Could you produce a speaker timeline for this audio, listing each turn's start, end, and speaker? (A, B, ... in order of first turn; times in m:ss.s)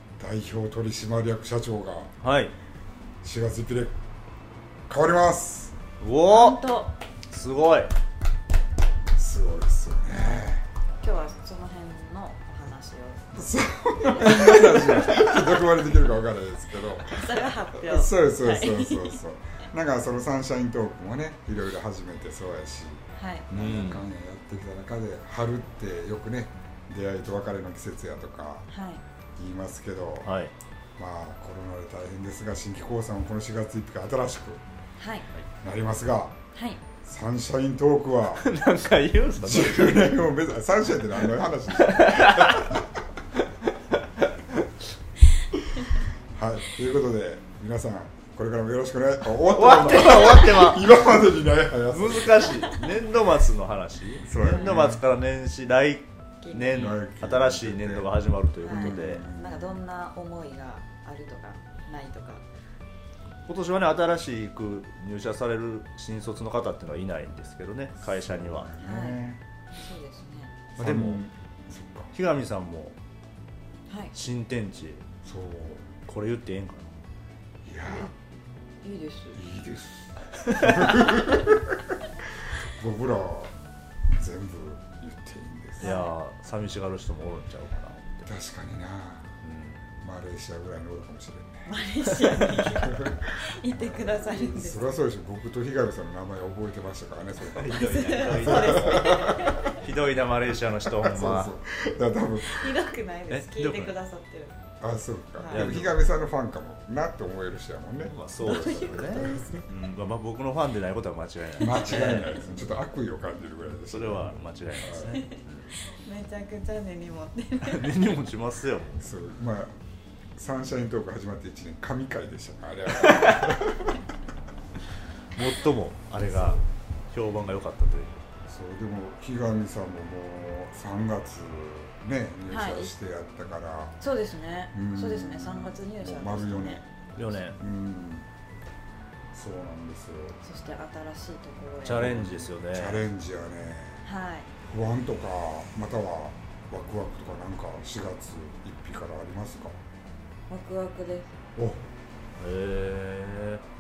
0:00.2-0:02.1 A
0:02.2-0:02.5 B
0:03.2-0:04.0 A
0:04.9-0:05.8 A
0:06.0-0:06.6 B
0:06.3-0:07.0 C
0:07.3-0:07.9 B
0:09.2-0:10.6 A
0:10.1-0:10.5 C
0:11.0-0:13.3 C
0:13.4-0:28.7 A
0:14.2-0:14.8 C
0:17.1-0:19.2 C
0:23.2-0:23.5 C
0:23.5-0:24.1 B
0:28.7-0:29.0 C
0:29.4-0:30.3 A
0:30.2-0:30.5 B
0:31.0-0:34.6 A
0:35.0-0:35.3 C
0:35.6-0:36.4 A
0:36.5-0:36.8 C
0:37.0-0:38.5 A
0:38.4-0:40.1 B
0:39.4-0:42.9 A
0:41.8-0:42.8 B
0:46.3-0:52.7 A
0:49.5-0:51.1 B
0:51.9-0:59.2 B
0:54.2-0:55.0 A
0:54.4-0:54.7 C
0:56.4-0:57.0 C
0:56.8-0:59.8 A
0:58.6-1:02.4 C
1:03.5-1:08.7 B
1:08.0-1:09.4 A
1:08.8-1:10.6 C
1:10.8-1:11.2 B
1:10.8-1:12.1 A
1:12.1-1:13.0 B
1:13.9-1:14.1 C
1:14.1-1:15.0 B
1:15.2-1:15.9 A
1:16.1-1:16.9 B
1:17.6-1:18.1 A
1:18.8-1:19.4 C
1:19.3-1:21.8 A
1:20.5-1:21.1 B
1:22.6-1:23.5 A
1:24.2-1:25.9 A
1:25.8-1:26.1 C
1:25.8-1:28.3 B
1:28.2-1:29.4 A
1:29.4-1:29.9 B
1:30.0-1:31.7 A
1:31.7-1:34.9 C
1:32.2-1:39.6 A
1:37.4-1:41.5 B
1:37.7-1:39.8 C
1:40.9-1:42.8 A
1:42.4-1:44.6 C
1:43.3-1:44.0 B
1:44.8-1:49.6 A
1:45.4-1:45.7 C
1:45.5-1:46.0 B
1:48.0-1:52.5 B
1:48.4-1:49.6 C
1:51.6-1:55.2 A
1:51.6-1:52.2 C
1:53.9-1:55.7 B
1:55.1-1:58.1 C
1:57.6-1:59.0 B
1:59.0-1:59.7 A
2:00.4-2:04.0 A
2:05.4-2:08.2 B
2:06.2-2:06.6 A
2:08.5-2:14.0 A
2:12.5-2:12.9 C
2:14.0-2:16.8 C
2:14.7-2:18.3 A
2:17.2-2:17.6 B
2:19.3-2:20.4 A
2:20.4-2:22.2 C
2:21.8-2:24.0 A
2:21.8-2:23.0 B
2:24.0-2:24.5 C
2:24.7-2:29.8 A
2:30.5-2:31.3 C
2:31.6-2:31.9 A
2:32.4-2:33.6 B